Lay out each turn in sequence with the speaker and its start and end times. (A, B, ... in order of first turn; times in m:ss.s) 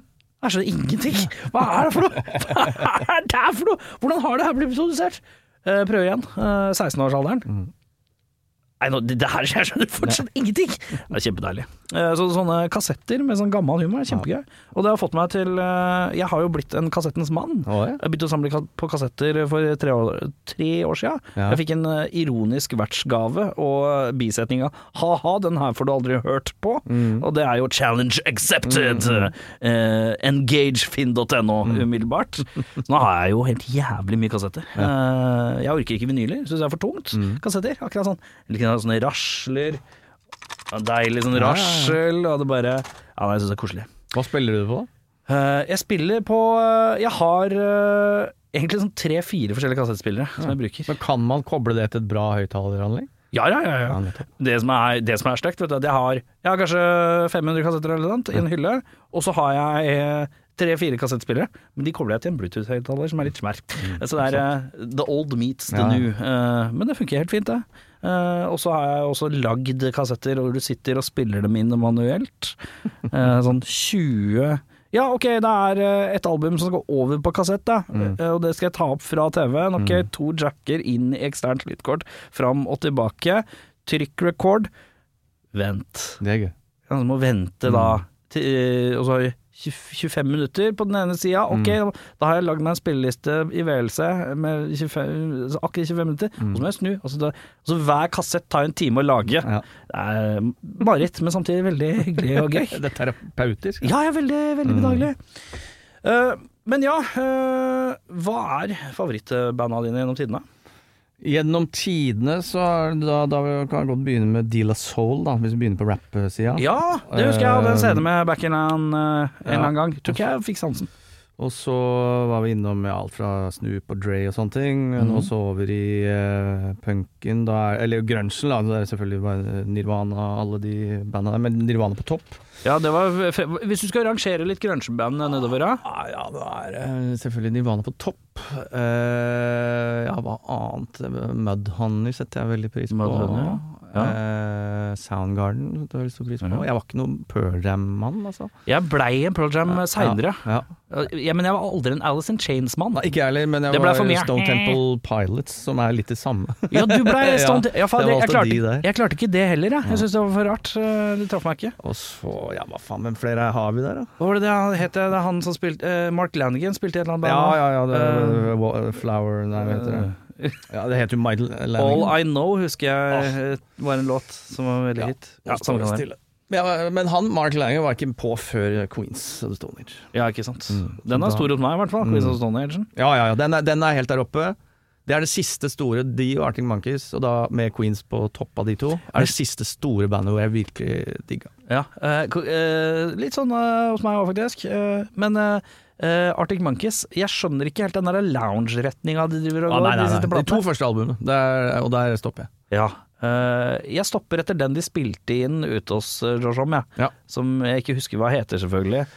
0:00.4-0:07.5 A
0:08.8-0:39.8 A
0:17.6-0:18.0 B
0:26.9-0:27.2 B
0:28.6-0:29.3 B
0:37.1-0:37.4 B
0:40.7-0:43.9 A
0:41.3-0:42.0 B
0:44.1-0:44.9 B
0:45.3-0:50.9 A
0:50.4-0:53.1 B
0:53.3-1:24.7 A
0:53.9-0:54.3 B
1:03.8-1:04.4 B
1:05.7-1:06.1 B
1:19.8-1:20.1 B
1:25.5-1:26.2 A
1:26.2-1:26.5 B
1:26.9-1:42.8 A
1:27.6-1:28.0 B
1:31.5-1:31.8 B
1:42.2-1:43.9 B
1:43.8-1:45.2 A
1:44.6-1:45.1 B
1:46.0-1:50.4 A
1:51.2-1:58.1 B
1:56.6-2:00.9 A
1:59.5-2:00.2 B
2:01.4-2:12.4 B
2:05.0-2:05.3 A
2:12.6-2:15.8 A
2:15.8-2:28.5 B
2:22.9-2:24.1 A
2:28.7-2:33.1 A
2:29.7-2:30.7 B
2:32.9-2:38.9 B
2:33.7-2:34.8 A
2:36.7-2:41.8 A
2:41.8-2:44.1 B
2:44.2-2:48.5 A
2:47.2-2:50.1 B
2:49.6-2:50.6 A
2:50.7-2:52.2 B
2:51.8-2:56.1 A
2:55.0-3:00.1 B
3:00.1-3:02.9 A
3:00.7-3:02.4 B
3:02.9-3:11.5 B
3:11.7-3:20.6 A
3:19.7-3:22.5 B
3:22.7-3:29.1 A